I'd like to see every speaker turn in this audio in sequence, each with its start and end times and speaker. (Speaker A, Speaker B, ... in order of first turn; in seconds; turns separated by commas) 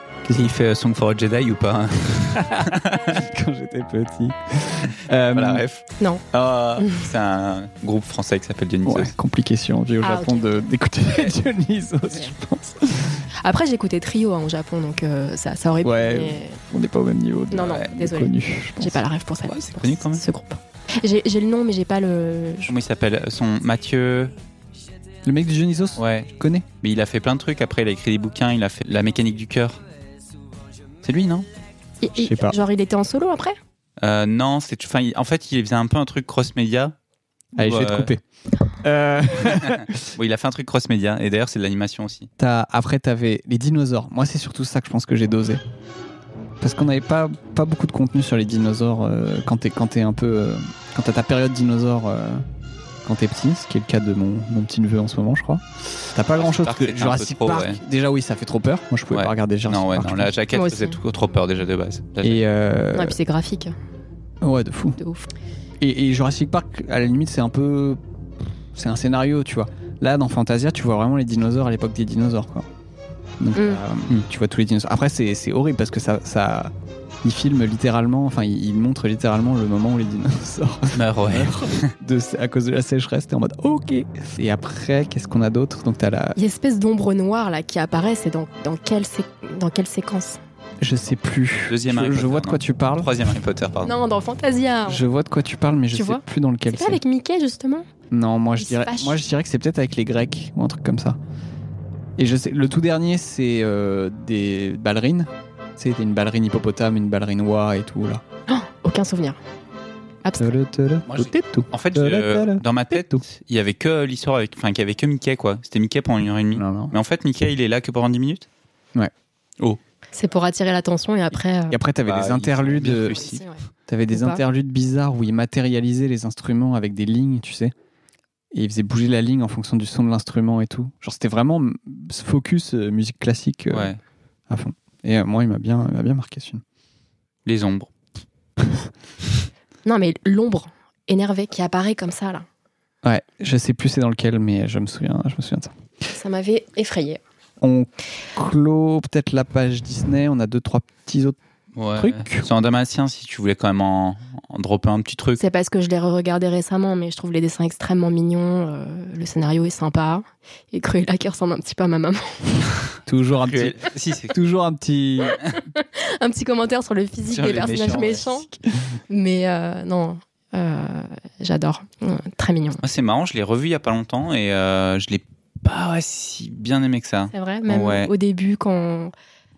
Speaker A: 0.3-3.2, Speaker B: 2.4-5.6, Speaker A: 5.3-9.1, Speaker B: 8.8-13.3, Speaker C: 10.0-10.7, Speaker C: 13.4-16.6, Speaker B: 15.8-19.0, Speaker C: 17.5-22.7, Speaker A: 19.5-20.2, Speaker A: 22.7-24.3, Speaker B: 25.2-26.7, Speaker A: 26.0-29.8, Speaker A: 31.0-31.5, Speaker C: 32.0-33.5, Speaker B: 32.2-32.6, Speaker A: 34.0-36.9, Speaker B: 37.5-40.1, Speaker A: 37.6-38.1, Speaker A: 40.1-42.3, Speaker B: 42.4-45.6, Speaker B: 46.6-52.5, Speaker B: 53.0-60.3, Speaker A: 56.3-57.8, Speaker A: 59.1-62.4, Speaker C: 60.5-61.0, Speaker B: 62.2-63.2, Speaker C: 62.9-63.7, Speaker B: 64.4-65.0, Speaker C: 65.0-65.3, Speaker B: 65.8-68.0, Speaker B: 68.7-72.7, Speaker B: 73.4-86.4, Speaker C: 73.5-73.8, Speaker A: 80.9-81.9, Speaker C: 86.3-90.4, Speaker B: 90.8-93.1, Speaker A: 91.7-93.9, Speaker C: 93.8-95.0, Speaker B: 94.9-97.0, Speaker C: 95.9-97.9, Speaker B: 98.1-101.2, Speaker C: 98.6-99.2, Speaker B: 102.2-108.2, Speaker C: 108.5-109.4, Speaker C: 110.2-110.6, Speaker B: 110.4-113.2, Speaker A: 111.1-118.5, Speaker B: 116.5-116.9, Speaker C: 120.1-121.8, Speaker B: 121.7-123.2, Speaker A: 122.0-123.4, Speaker C: 123.0-123.6, Speaker B: 123.9-127.7, Speaker C: 124.1-124.4, Speaker B: 128.5-133.9, Speaker A: 133.7-134.0, Speaker B: 134.5-136.6, Speaker A: 137.4-137.9, Speaker C: 139.8-142.4, Speaker B: 143.0-145.7, Speaker C: 146.1-147.2, Speaker B: 147.6-151.4, Speaker A: 151.8-155.4, Speaker B: 151.9-152.5, Speaker C: 155.4-162.6, Speaker B: 163.1-163.8, Speaker A: 163.4-164.3, Speaker B: 164.3-165.4, Speaker C: 165.4-168.5, Speaker A: 167.3-168.3, Speaker C: 169.1-172.8, Speaker A: 172.8-178.1, Speaker C: 177.3-179.1